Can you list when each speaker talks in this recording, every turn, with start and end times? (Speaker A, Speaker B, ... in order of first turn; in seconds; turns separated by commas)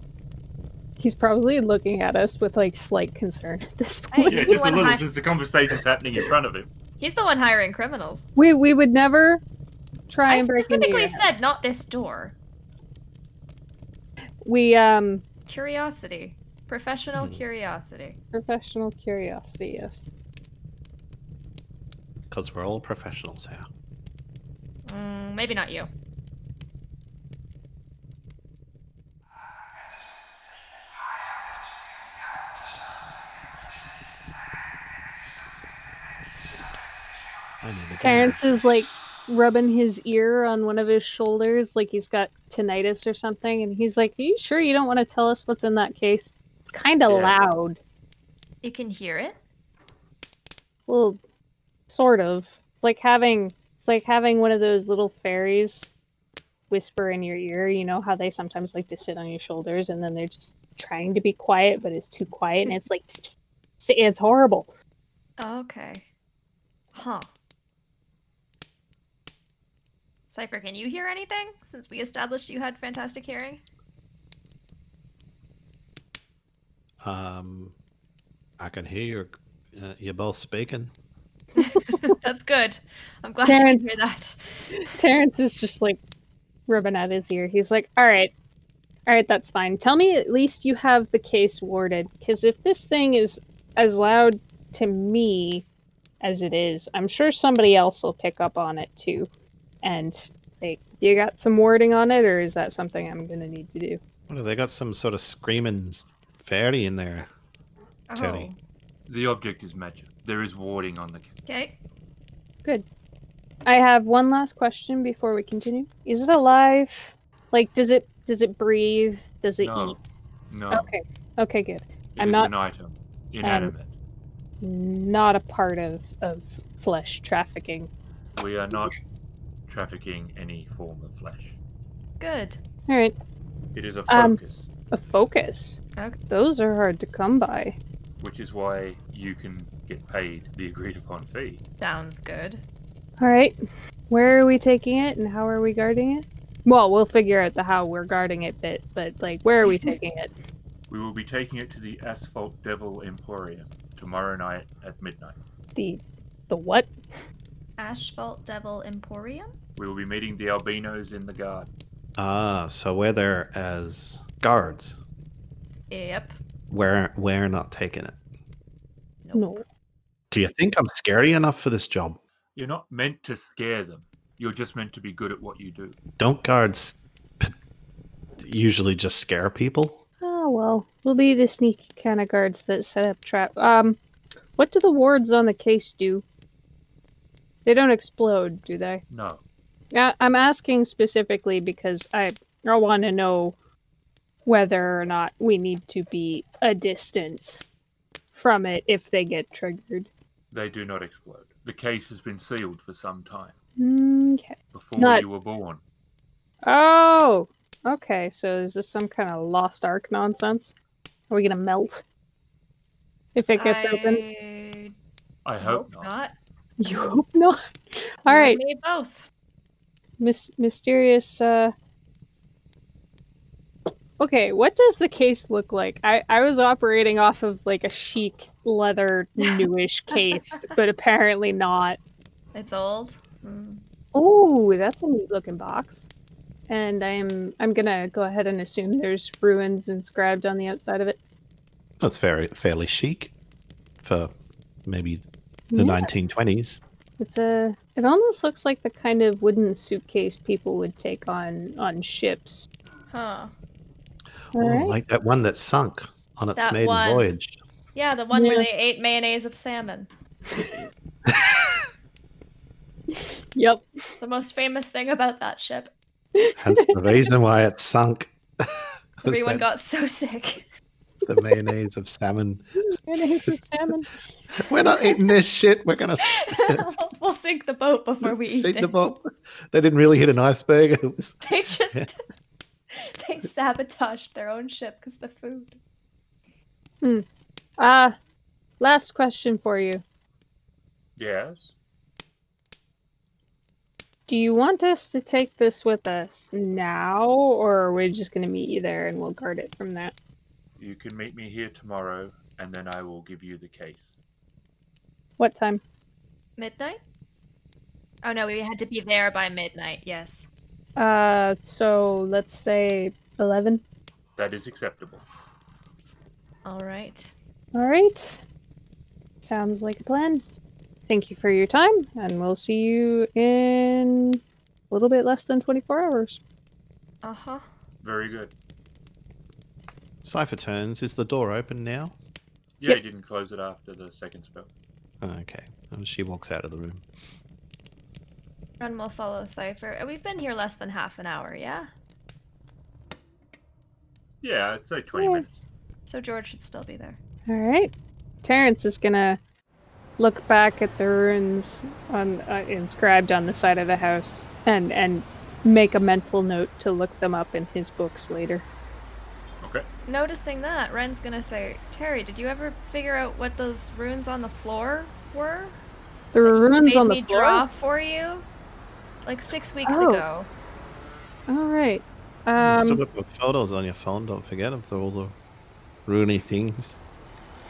Speaker A: 1.0-4.9, Speaker B: 4.1-5.1, Speaker C: 4.3-6.7, Speaker B: 7.0-8.3, Speaker A: 8.4-9.4, Speaker A: 10.1-11.3, Speaker B: 10.3-12.3, Speaker A: 14.4-15.2, Speaker B: 15.5-18.2, Speaker D: 17.1-17.4, Speaker A: 18.3-20.0, Speaker D: 22.3-23.7, Speaker B: 24.9-25.9, Speaker D: 37.6-38.5, Speaker A: 38.0-47.8, Speaker C: 47.1-47.5, Speaker B: 48.6-49.4, Speaker A: 50.9-51.2, Speaker A: 51.9-55.9, Speaker A: 56.7-64.7, Speaker B: 65.4-66.1, Speaker B: 66.9-67.3, Speaker B: 70.3-73.6, Speaker D: 77.0-77.7, Speaker D: 78.6-80.9, Speaker B: 81.6-84.7, Speaker A: 81.6-82.1, Speaker A: 83.5-83.8, Speaker A: 84.8-86.0, Speaker A: 86.7-88.3, Speaker A: 89.1-95.7, Speaker A: 96.2-99.3, Speaker A: 99.8-104.0, Speaker D: 104.3-107.3, Speaker B: 108.1-108.6, Speaker D: 108.2-108.5, Speaker C: 109.1-111.3, Speaker B: 111.5-111.8, Speaker A: 113.7-120.0, Speaker C: 119.6-120.0, Speaker C: 120.5-120.9, Speaker A: 120.7-122.5, Speaker C: 122.2-123.9, Speaker A: 123.4-123.7, Speaker A: 124.6-127.9, Speaker C: 128.4-129.0, Speaker C: 129.7-131.6, Speaker B: 132.2-132.6, Speaker A: 132.9-133.2, Speaker C: 133.7-134.7, Speaker A: 134.1-134.4, Speaker A: 134.9-135.8, Speaker A: 136.3-137.8, Speaker C: 138.2-141.6, Speaker B: 141.8-142.6, Speaker A: 143.2-143.6, Speaker A: 144.1-150.3, Speaker B: 149.7-149.9, Speaker C: 150.9-155.4, Speaker A: 155.8-156.9, Speaker B: 157.8-159.5, Speaker C: 159.8-161.7, Speaker D: 162.2-165.0, Speaker B: 165.9-166.4, Speaker D: 166.7-168.2, Speaker B: 169.2-169.6, Speaker A: 169.3-169.6, Speaker D: 170.3-172.2, Speaker C: 172.6-176.0, Speaker D: 176.2-177.5, Speaker D: 178.4-180.0, Speaker A: 180.2-184.0, Speaker A: 184.6-186.2, Speaker A: 187.7-189.0, Speaker C: 189.1-189.4, Speaker A: 189.9-193.6, Speaker A: 194.5-197.7, Speaker A: 198.3-200.1, Speaker C: 200.5-203.6, Speaker A: 203.8-205.2, Speaker C: 204.7-205.8, Speaker A: 206.7-210.7, Speaker A: 211.3-212.0, Speaker A: 213.3-214.2, Speaker B: 213.6-214.9, Speaker C: 215.4-216.1, Speaker B: 215.6-216.3, Speaker A: 216.8-218.6, Speaker B: 216.9-217.2, Speaker B: 218.3-219.3, Speaker A: 220.2-221.7, Speaker A: 224.2-232.0, Speaker B: 230.1-230.7, Speaker B: 232.5-233.8, Speaker A: 234.1-236.0, Speaker A: 236.7-241.2, Speaker D: 242.0-243.3, Speaker D: 244.0-244.3, Speaker D: 244.9-246.8, Speaker A: 245.7-246.1, Speaker A: 247.2-252.7, Speaker B: 253.1-253.5, Speaker D: 254.5-257.6, Speaker A: 254.6-254.9, Speaker B: 256.6-257.3, Speaker B: 257.9-260.1, Speaker A: 258.3-258.7, Speaker A: 260.5-260.8, Speaker D: 261.3-261.8, Speaker A: 263.1-263.9, Speaker B: 264.2-265.9, Speaker A: 266.4-267.0, Speaker D: 266.6-269.6, Speaker B: 269.2-270.7, Speaker D: 271.3-272.7, Speaker A: 273.0-274.1, Speaker D: 274.6-276.8, Speaker B: 276.2-279.1, Speaker D: 278.2-282.1, Speaker B: 281.4-282.2, Speaker B: 282.9-285.8, Speaker A: 287.8-288.1, Speaker A: 288.8-290.0, Speaker C: 291.2-291.7, Speaker A: 294.3-300.1, Speaker C: 300.8-304.1, Speaker A: 305.4-305.8, Speaker B: 306.6-307.0, Speaker B: 308.2-310.5, Speaker A: 311.0-313.8, Speaker C: 314.4-315.2, Speaker B: 316.6-317.3, Speaker A: 317.8-318.4, Speaker A: 319.4-320.4, Speaker A: 321.1-326.4, Speaker B: 327.2-327.6, Speaker C: 328.0-328.5, Speaker D: 330.2-332.1, Speaker C: 332.8-334.7, Speaker D: 335.2-337.0, Speaker B: 338.8-341.9, Speaker C: 344.4-345.6, Speaker A: 345.1-345.4, Speaker B: 346.1-347.2, Speaker A: 347.5-347.9, Speaker A: 348.4-349.4, Speaker A: 350.2-358.7, Speaker C: 359.6-359.9, Speaker B: 360.1-365.8, Speaker A: 366.3-367.6, Speaker B: 366.4-368.5, Speaker B: 369.2-370.5, Speaker A: 369.9-370.2, Speaker A: 371.5-373.0, Speaker D: 372.6-375.4, Speaker D: 376.1-377.0